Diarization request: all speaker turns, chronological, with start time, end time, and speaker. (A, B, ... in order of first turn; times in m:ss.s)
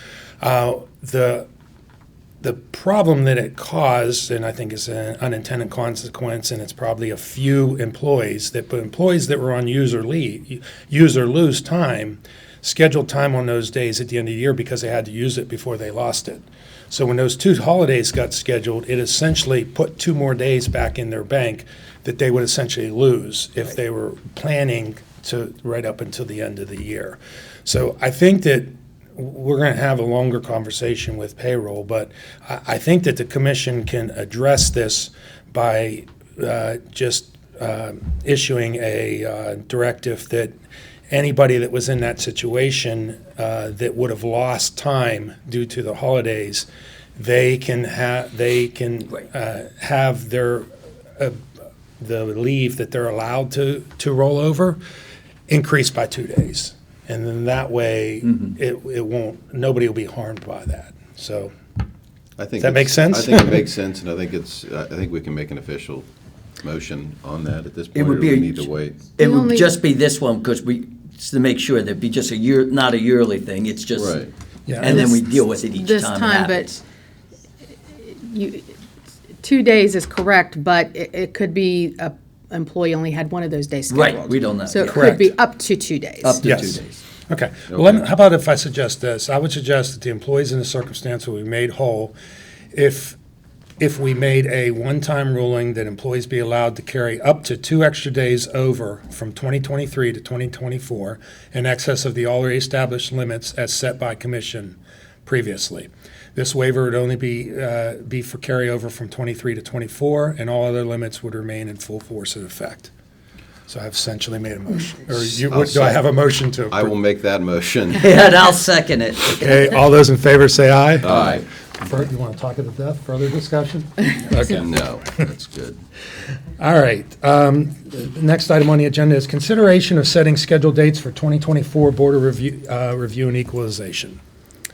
0:00.4-0:01.5 A
0:02.4-0:40.5 A
0:41.1-0:51.4 A
0:52.0-0:54.8 A
0:55.5-1:01.6 A
1:02.4-1:06.0 B
1:02.6-1:03.6 A
1:06.6-1:09.2 B
1:07.9-1:14.2 C
1:09.2-1:09.8 D
1:13.9-1:14.3 B
1:14.7-1:15.0 A
1:14.8-1:16.8 C
1:14.8-1:16.7 D
1:18.0-1:18.8 D
1:19.4-1:26.4 D
1:23.9-1:25.0 C
1:24.9-1:25.4 A
1:26.2-1:27.0 C
1:26.4-1:32.1 A
1:27.7-1:28.1 B
1:32.7-1:33.2 A
1:33.8-1:52.9 A
1:53.7-1:56.9 A
1:55.4-1:58.1 B
1:58.0-1:59.6 C
1:59.3-2:04.7 A
2:01.0-2:01.4 B
2:04.4-2:05.8 B
2:06.6-2:14.2 A